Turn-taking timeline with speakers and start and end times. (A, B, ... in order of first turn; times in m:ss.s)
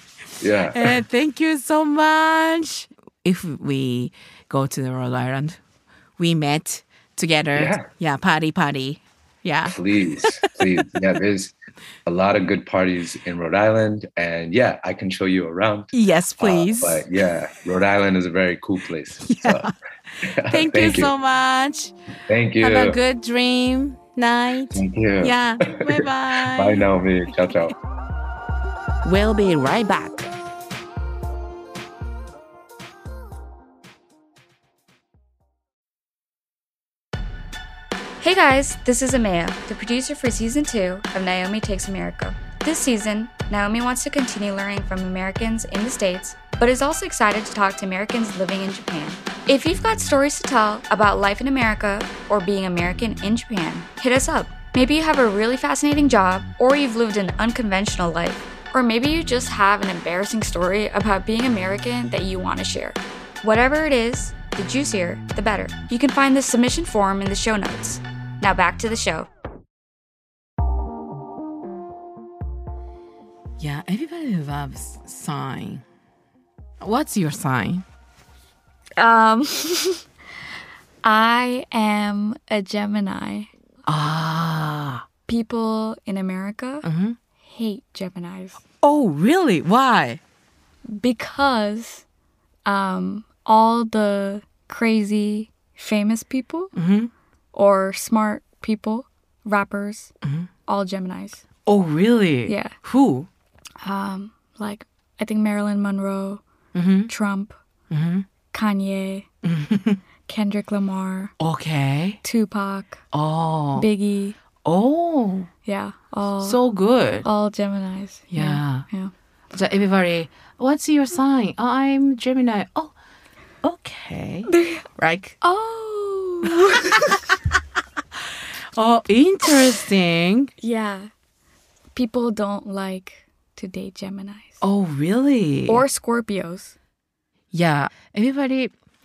0:00.4-0:01.0 A
0:00.7-0:05.6 B
0:06.2-0:11.0 B
0:07.6-0:07.9 A
0:09.6-0:11.5 A
0:12.1-0:19.7 A
0:15.9-0:17.1 B
0:19.2-0:21.9 B
0:20.3-0:21.1 A
0:22.3-0:23.0 A
0:22.6-0:26.9 B
0:24.7-0:27.7 A
0:29.0-0:30.3 B
0:38.2-1:09.3 C
1:13.6-1:15.8 B
1:16.8-1:17.8 B
1:19.0-1:20.0 C
1:21.0-1:23.5 C
1:23.9-1:25.0 B
1:25.3-1:26.9 C
1:26.8-1:27.2 B
1:27.4-1:28.6 C
1:28.8-1:30.2 B
1:31.0-1:32.0 C
1:32.7-1:36.8 C
1:36.8-1:37.1 B
1:37.5-1:40.1 C
1:40.7-1:41.4 C
1:41.7-1:43.3 B
1:42.5-1:42.7 C
1:43.8-1:46.4 C
1:46.7-1:47.1 B
1:47.1-1:47.6 C
1:47.9-1:48.3 B
1:48.5-1:49.3 C
1:49.4-1:50.0 B
1:50.3-1:51.3 C
1:51.4-1:52.2 B
1:52.2-1:53.0 C
1:53.1-1:53.9 B
1:53.8-1:54.4 C
1:54.6-1:55.5 B
1:55.7-1:56.6 C
1:56.4-1:57.3 B
1:57.2-1:59.1 C
1:58.3-1:58.9 B
1:59.5-2:02.9 B
2:03.6-2:05.4 B
2:04.5-2:04.8 C
2:05.4-2:07.2 C
2:08.8-2:10.5 B
2:10.6-2:11.1 C
2:12.0-2:14.6 C
2:14.6-2:15.8 B
2:15.7-2:16.7 C
2:17.5-2:18.7 B